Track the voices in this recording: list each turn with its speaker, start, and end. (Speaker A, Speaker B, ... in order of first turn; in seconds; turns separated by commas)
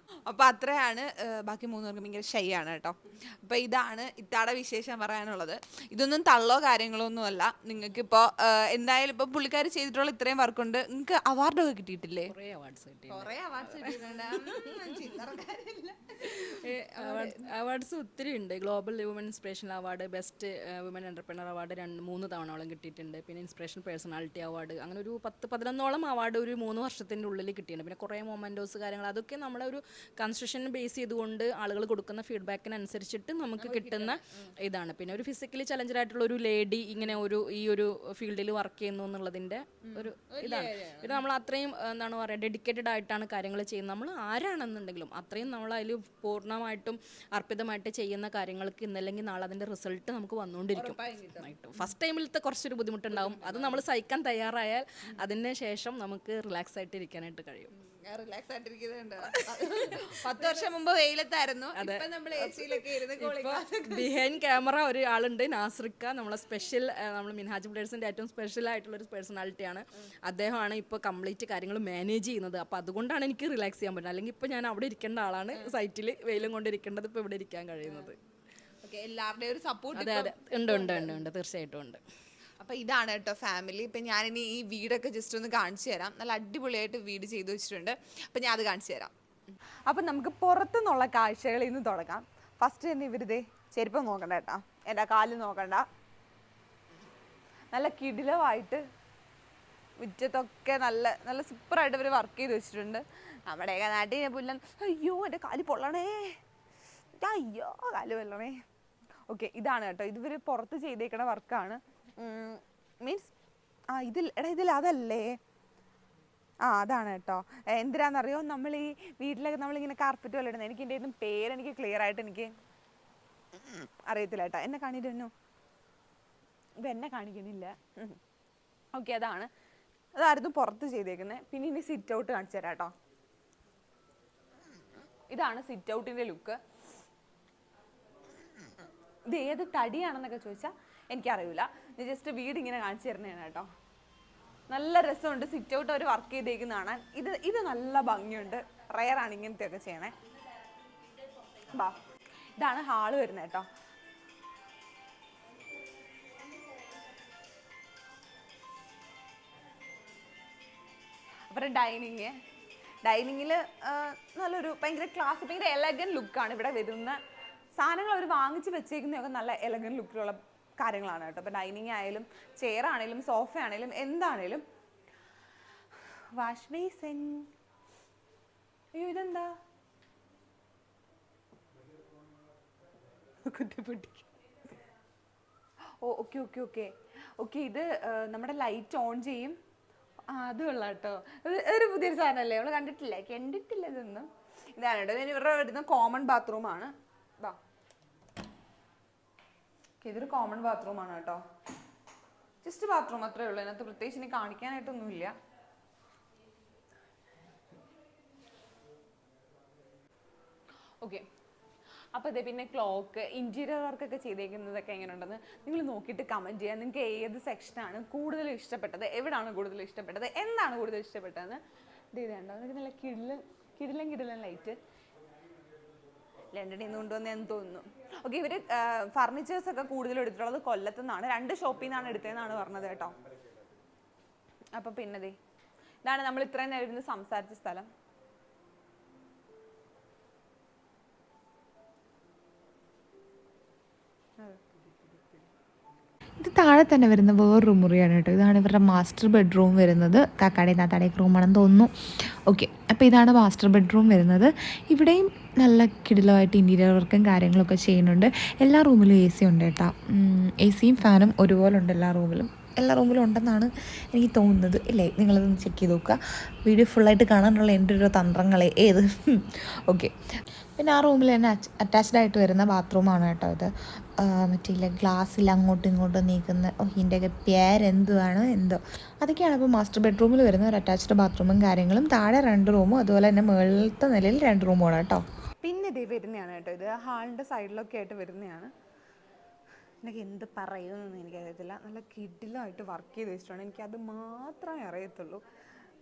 Speaker A: 0.3-12.3, Speaker B: 12.3-15.0, Speaker A: 13.1-17.5, Speaker B: 16.2-57.7, Speaker A: 33.6-34.5, Speaker A: 39.8-41.2, Speaker A: 50.7-51.9, Speaker A: 53.1-53.8, Speaker A: 57.7-64.1, Speaker B: 59.8-60.6, Speaker B: 61.8-78.2, Speaker A: 77.8-78.1, Speaker A: 78.8-81.3, Speaker B: 79.9-82.0, Speaker A: 82.6-89.1, Speaker A: 89.9-95.9, Speaker A: 97.7-98.8, Speaker A: 100.0-106.4, Speaker A: 107.2-108.6, Speaker A: 109.3-113.3, Speaker A: 113.9-115.4, Speaker A: 116.6-122.5, Speaker A: 123.7-125.3, Speaker A: 126.8-128.2, Speaker A: 128.9-129.5, Speaker A: 130.2-132.9, Speaker A: 135.3-136.6, Speaker A: 139.3-143.7, Speaker A: 144.7-150.2, Speaker A: 151.6-152.0, Speaker A: 152.6-153.7, Speaker A: 161.5-162.4, Speaker A: 163.0-167.2, Speaker A: 167.8-174.7, Speaker A: 176.4-177.5, Speaker A: 178.9-179.6, Speaker A: 183.4-184.3, Speaker A: 186.0-189.6, Speaker A: 190.3-197.6, Speaker A: 200.0-201.4, Speaker A: 202.6-205.3, Speaker A: 212.1-221.6, Speaker A: 222.1-224.8, Speaker A: 226.5-233.2, Speaker A: 234.8-235.4, Speaker A: 236.1-237.9, Speaker A: 244.4-245.5, Speaker C: 246.4-270.1, Speaker C: 270.8-285.2, Speaker A: 285.6-288.7, Speaker A: 290.0-295.4